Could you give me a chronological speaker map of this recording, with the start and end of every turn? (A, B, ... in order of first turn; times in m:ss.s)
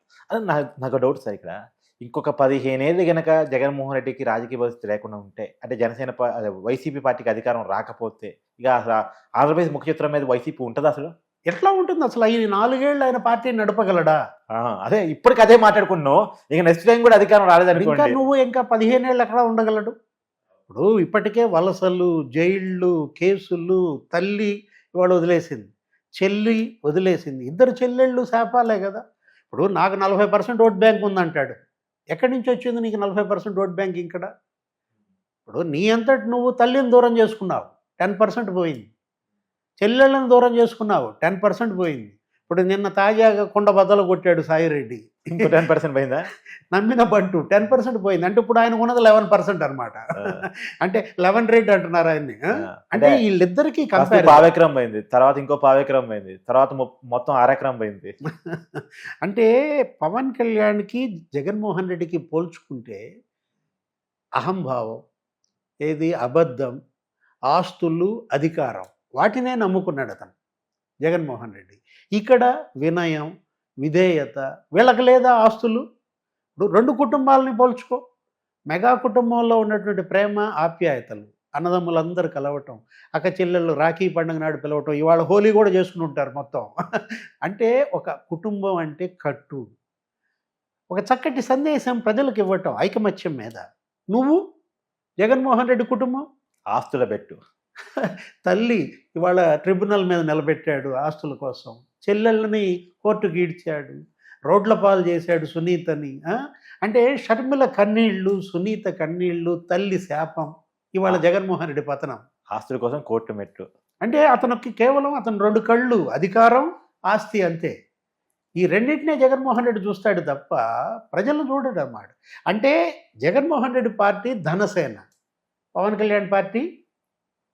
0:00.3-0:11.1 A
0:11.5-0:14.2 B
0:14.6-0:18.2 A
0:17.8-0:19.9 B
0:20.7-0:31.6 B
0:32.1-0:34.3 B
0:35.5-0:38.9 B
0:39.8-0:45.5 B
0:45.3-0:46.2 A
0:46.7-0:52.4 B
0:52.8-0:53.2 A
0:53.0-0:54.5 B
0:54.0-0:58.1 A
0:58.5-0:59.5 B
1:00.0-1:03.0 B
1:04.4-1:05.0 B
1:05.9-1:06.7 B
1:07.5-1:10.3 B
1:11.0-1:13.3 B
1:13.8-1:15.8 B
1:16.6-1:18.0 B
1:18.7-1:26.7 B
1:27.4-1:29.6 B
1:30.9-1:34.4 B
1:35.2-1:36.2 B
1:36.7-1:37.4 A
1:38.0-1:44.0 B
1:44.5-1:46.2 B
1:46.8-1:52.2 B
1:52.5-1:53.7 A
1:54.0-1:57.7 B
1:58.6-2:00.6 B
2:01.1-2:02.7 B
2:03.2-2:05.0 B
2:05.8-2:06.6 B